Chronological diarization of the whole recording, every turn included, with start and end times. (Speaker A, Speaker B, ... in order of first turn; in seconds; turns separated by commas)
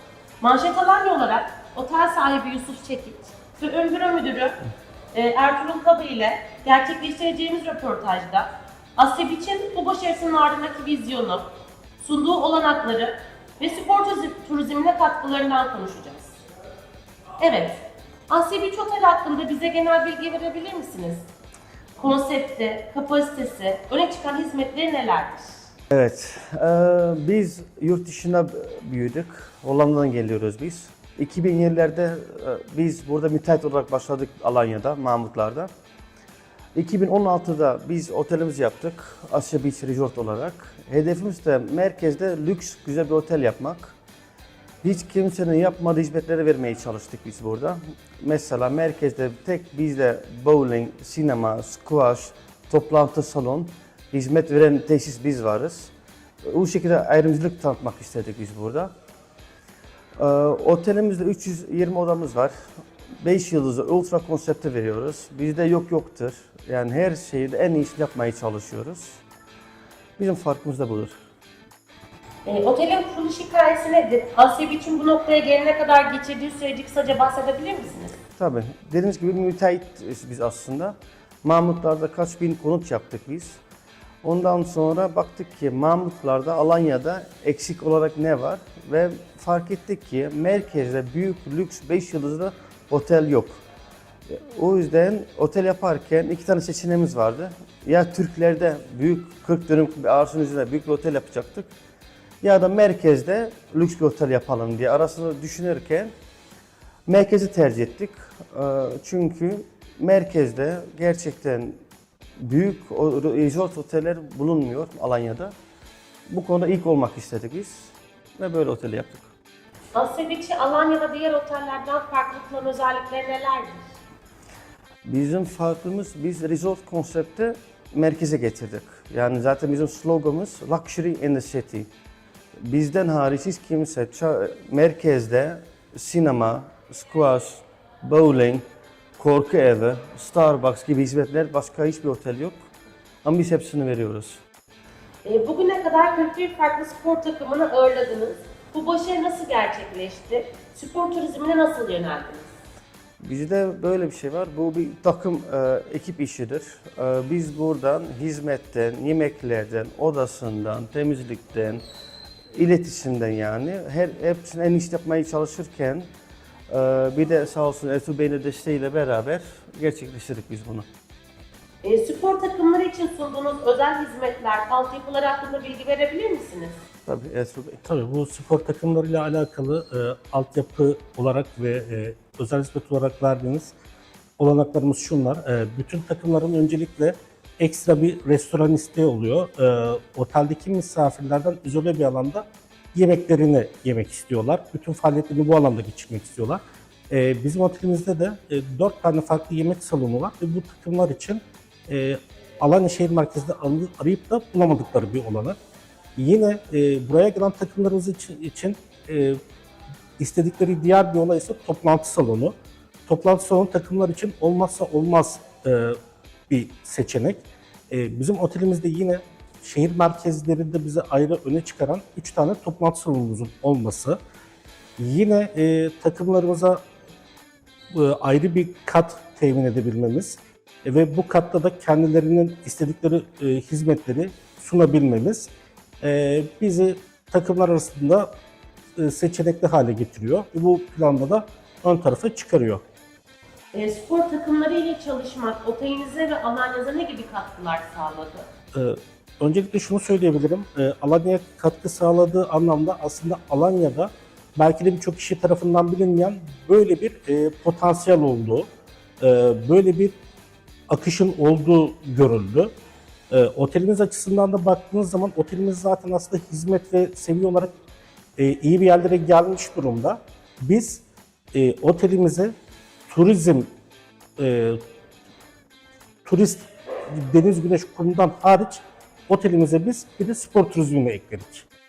Speaker A: 0.4-4.6, Speaker A: 5.1-11.5, Speaker A: 12.0-16.3, Speaker A: 17.4-21.2, Speaker A: 22.0-25.5, Speaker B: 25.9-35.7, Speaker B: 36.8-44.0, Speaker B: 44.8-55.9, Speaker B: 56.4-58.9, Speaker B: 60.2-62.5, Speaker B: 63.2-69.2, Speaker B: 70.2-71.2, Speaker A: 72.5-78.1, Speaker B: 78.4-83.6, Speaker B: 84.2-93.6, Speaker B: 94.3-101.7, Speaker B: 102.4-106.1, Speaker B: 107.1-111.8, Speaker B: 112.4-115.5, Speaker B: 116.3-119.3, Speaker A: 120.0-123.8, Speaker B: 125.0-131.9, Speaker B: 132.6-138.6, Speaker B: 139.2-142.6, Speaker B: 143.2-144.4, Speaker A: 145.2-152.5, Speaker B: 153.2-161.8, Speaker B: 162.5-166.1, Speaker B: 166.7-170.9, Speaker A: 171.8-176.8, Speaker B: 177.1-177.8, Speaker C: 177.8-183.7, Speaker C: 184.4-205.6, Speaker C: 206.2-209.4, Speaker C: 210.2-212.5, Speaker C: 213.1-216.0, Speaker C: 216.5-224.2, Speaker C: 225.0-226.8, Speaker C: 227.9-238.3, Speaker C: 239.0-242.8, Speaker A: 243.7-248.5, Speaker C: 248.7-258.7, Speaker C: 259.2-260.2, Speaker C: 260.9-262.7, Speaker C: 263.3-267.7, Speaker C: 268.4-272.5, Speaker C: 273.1-273.7, Speaker C: 274.4-274.8, Speaker C: 276.2-281.7